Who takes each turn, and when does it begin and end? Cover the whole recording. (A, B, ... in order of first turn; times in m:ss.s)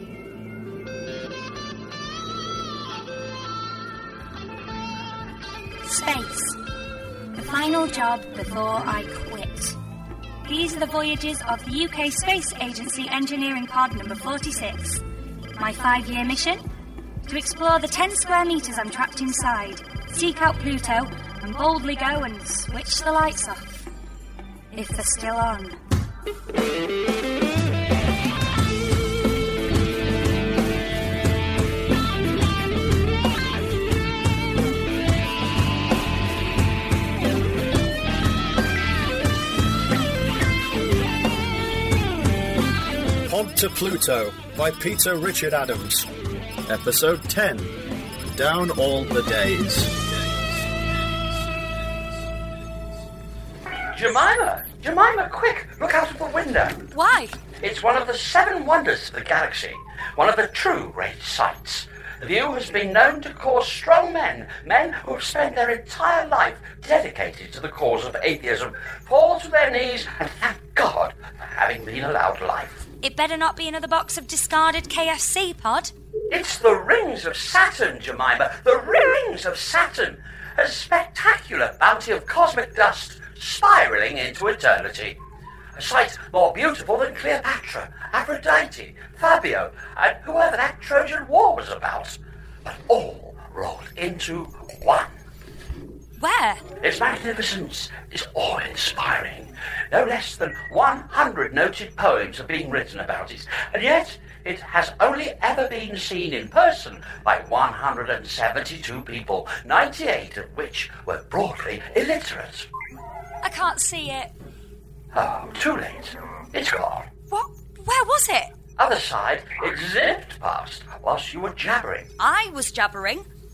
0:05.8-0:06.6 A
0:07.3-0:09.8 A
0:10.4-0:15.0 A
0:15.5-0:16.6 A
0:17.2-0:23.9 A
0:24.7-0:25.8 A
0:43.2-0:46.1 B
0:46.6-0:47.7 B
0:48.3-0:50.0 B
0:53.9-0:56.9 C
0:56.9-0:57.4 A
0:57.6-1:12.8 C
1:13.0-1:15.9 A
1:16.3-1:25.2 C
1:25.8-1:35.1 C
1:36.2-1:36.6 A
1:36.8-1:52.7 C
1:53.4-1:54.3 A
1:55.1-1:57.1 C
1:57.3-1:58.5 A
1:58.8-2:02.1 C
2:02.2-2:03.2 A